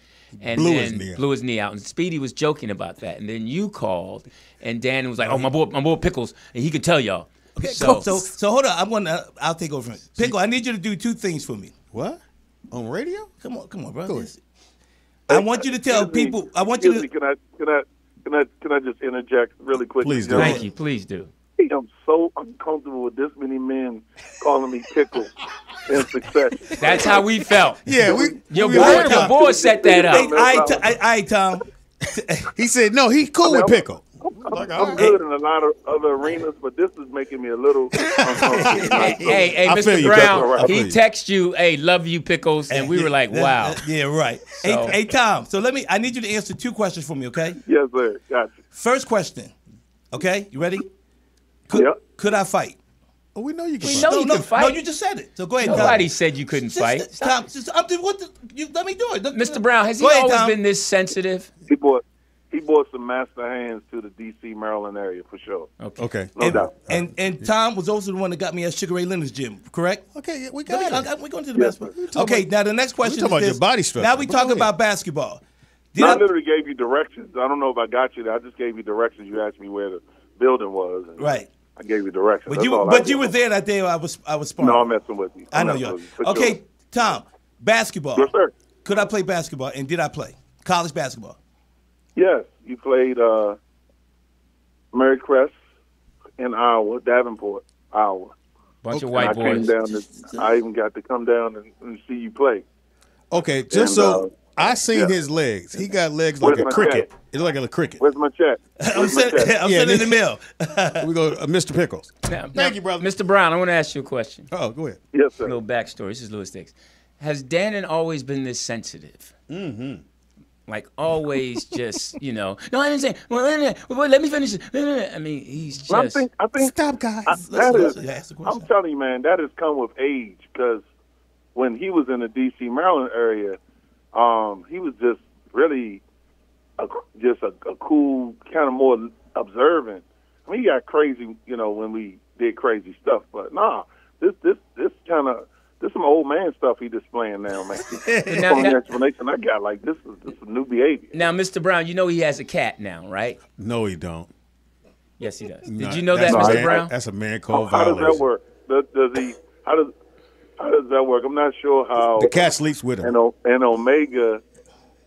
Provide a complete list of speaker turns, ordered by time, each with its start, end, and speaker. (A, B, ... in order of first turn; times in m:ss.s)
0:00.4-0:01.2 A
0:00.4-0:08.2 B
0:05.2-0:05.5 A
0:07.6-0:11.7 C
0:11.9-0:13.3 A
0:13.4-0:14.4 C
0:15.3-0:17.1 C
0:15.3-0:20.6 D
0:20.0-0:20.6 A
0:20.4-0:21.3 B
0:21.6-0:25.3 D
0:25.8-0:27.2 D
0:26.8-0:30.4 B
0:27.8-0:29.3 A
0:28.2-0:30.8 D
0:28.6-0:32.5 C
0:32.6-0:35.1 A
0:33.4-0:40.7 D
0:34.8-0:35.2 C
0:37.9-0:41.0 A
0:38.5-0:39.4 C
0:38.8-0:43.8 B
0:42.7-0:47.6 C
0:44.6-0:44.9 B
0:47.6-0:48.6 D
0:48.7-0:49.5 C
0:50.1-0:50.9 C
0:51.7-0:52.8 C
0:51.7-0:52.0 D
0:53.3-0:54.1 A
0:53.8-0:54.8 B
0:53.8-1:00.6 C
0:55.6-0:57.3 B
0:55.6-0:56.1 A
0:59.3-1:01.5 B
1:01.7-1:05.7 D
1:05.8-1:06.1 B
1:06.0-1:07.5 A
1:06.4-1:06.7 D
1:06.4-1:10.0 C
1:10.1-1:11.1 A
1:10.6-1:15.4 C
1:11.5-1:11.9 D
1:12.0-1:12.5 A
1:13.0-1:14.7 A
1:15.9-1:16.3 C
1:16.0-1:23.3 D
1:21.2-1:21.5 C
1:22.5-1:24.9 C
1:24.6-1:26.6 D
1:25.5-1:28.3 C
1:28.1-1:28.5 D
1:28.8-1:31.4 C
1:32.2-1:33.6 D
1:34.9-1:35.6 D
1:36.4-1:38.3 D
1:38.8-1:39.8 B
1:38.9-1:39.6 A
1:39.2-1:42.6 D
1:40.2-1:40.5 C
1:43.3-1:48.0 A
1:43.7-1:45.1 D
1:46.4-1:47.1 D
1:48.0-1:49.6 D
1:48.8-1:51.1 C
1:49.6-1:50.2 A
1:51.0-1:53.1 A
1:52.2-1:54.5 B
1:54.5-1:55.0 A
1:55.1-1:55.5 D
1:55.4-1:59.3 B
1:59.5-2:00.0 A
2:00.7-2:06.3 B
2:05.9-2:06.7 D
2:06.6-2:07.9 A
2:07.2-2:10.8 D
2:07.3-2:08.7 C
2:11.5-2:13.6 D
2:14.1-2:16.0 D
2:16.8-2:31.1 D
2:27.8-2:28.8 C
2:28.3-2:28.8 B
2:31.1-2:33.4 B
2:33.6-2:34.3 A
2:35.2-2:36.9 B
2:35.6-2:38.2 A
2:36.2-2:36.8 D
2:37.5-2:39.9 D
2:40.6-2:42.4 D
2:42.1-2:43.1 A
2:43.0-2:44.4 D